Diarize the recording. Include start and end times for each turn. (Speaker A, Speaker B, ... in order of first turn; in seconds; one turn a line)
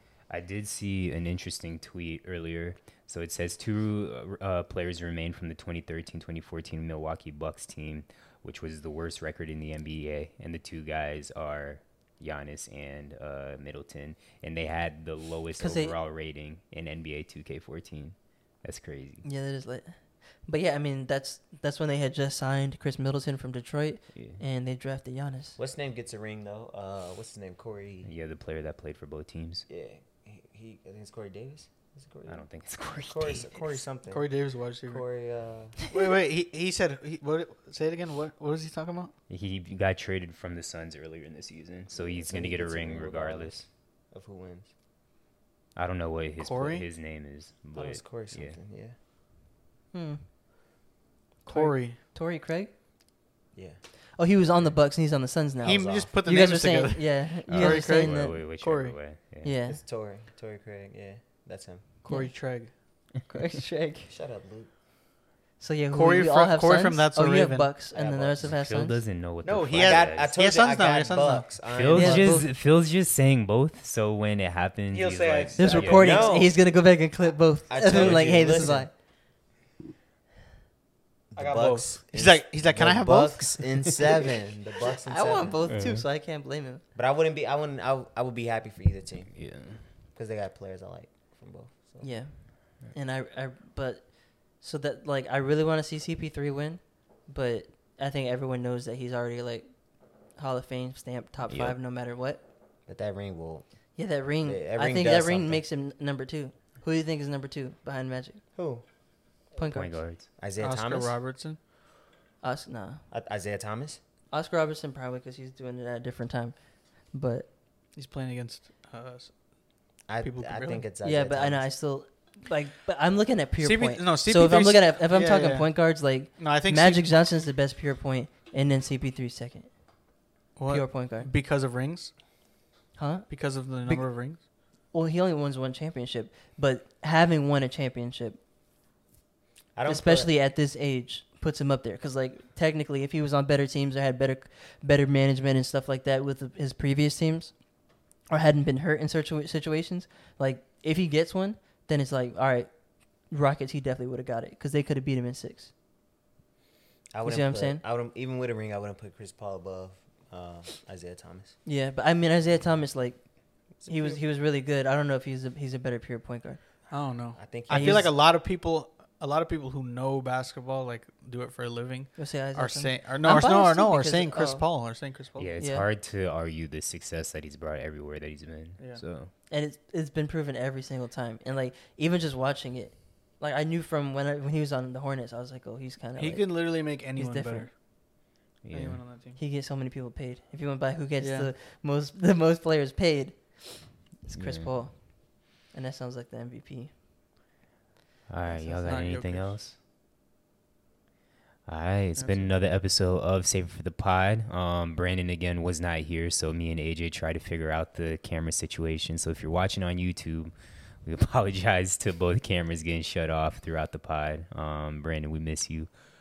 Speaker A: 0.3-19.2
Speaker B: 15.6-15.9
Speaker B: 19.2-25.6
Speaker C: 25.6-28.1
Speaker A: 28.0-29.6
Speaker C: 29.7-34.3
Speaker A: 32.3-33.8
Speaker D: 34.1-35.0
Speaker C: 34.8-35.8
Speaker D: 35.9-39.1
Speaker A: 39.3-43.6
Speaker C: 41.9-44.7
Speaker A: 45.8-48.6
Speaker D: 46.4-46.9
Speaker C: 47.7-48.9
Speaker B: 49.9-50.2
Speaker D: 51.4-52.0
Speaker B: 51.5-52.7
Speaker C: 53.5-53.8
Speaker B: 54.2-58.4
Speaker D: 55.6-59.0
Speaker C: 55.7-56.1
Speaker A: 57.5-59.5
Speaker B: 59.4-59.8
Speaker C: 59.6-61.8
Speaker D: 62.0-62.7
Speaker B: 62.1-64.1
Speaker C: 64.1-64.7
Speaker B: 65.6-69.0
Speaker D: 65.9-67.7
Speaker C: 67.9-68.4
Speaker A: 68.4-70.3
Speaker D: 69.4-71.5
Speaker C: 69.7-72.4
Speaker A: 71.7-76.3
Speaker B: 71.9-72.5
Speaker D: 74.9-76.2
Speaker B: 75.6-78.9
Speaker C: 75.8-76.6
Speaker C: 77.7-78.9
Speaker C: 81.3-85.6
Speaker D: 81.3-83.7
Speaker B: 85.0-86.8
Speaker A: 85.7-86.0
Speaker C: 86.9-92.1
Speaker A: 89.3-89.8
Speaker B: 92.0-99.7
Speaker B: 100.3-102.4
Speaker A: 101.4-101.8
Speaker C: 102.9-103.7
Speaker B: 104.0-108.4
Speaker C: 104.4-105.6
Speaker C: 108.5-108.8
Speaker B: 109.5-110.0
Speaker A: 109.7-110.3
Speaker C: 110.4-111.2
Speaker D: 110.6-111.6
Speaker B: 112.4-113.0
Speaker C: 113.1-114.0
Speaker B: 114.3-117.5
Speaker D: 117.9-119.4
Speaker C: 120.1-121.7
Speaker D: 120.2-120.8
Speaker B: 121.0-129.7
Speaker D: 123.6-127.0
Speaker D: 130.6-132.1
Speaker B: 130.7-131.3
Speaker B: 132.9-138.4
Speaker D: 133.3-134.4
Speaker C: 139.8-140.3
Speaker B: 139.8-147.5
Speaker B: 148.3-152.7
Speaker B: 153.3-155.7
Speaker C: 157.1-161.6
Speaker B: 157.2-157.8
Speaker B: 161.6-166.6
Speaker C: 163.8-164.2
Speaker D: 166.9-175.5
Speaker C: 167.3-168.1
Speaker B: 167.7-168.1
Speaker B: 172.2-174.7
Speaker A: 175.4-179.3
Speaker B: 175.6-175.9
Speaker D: 178.8-179.0
Speaker B: 179.5-187.7
Speaker D: 186.2-187.7
Speaker A: 188.6-189.0
Speaker D: 188.7-189.4
Speaker B: 189.3-196.9
Speaker D: 191.2-191.5
Speaker A: 194.3-194.7
Speaker A: 198.3-199.8
Speaker B: 198.5-199.2
Speaker D: 198.8-199.6
Speaker A: 201.7-215.9
Speaker D: 202.2-202.5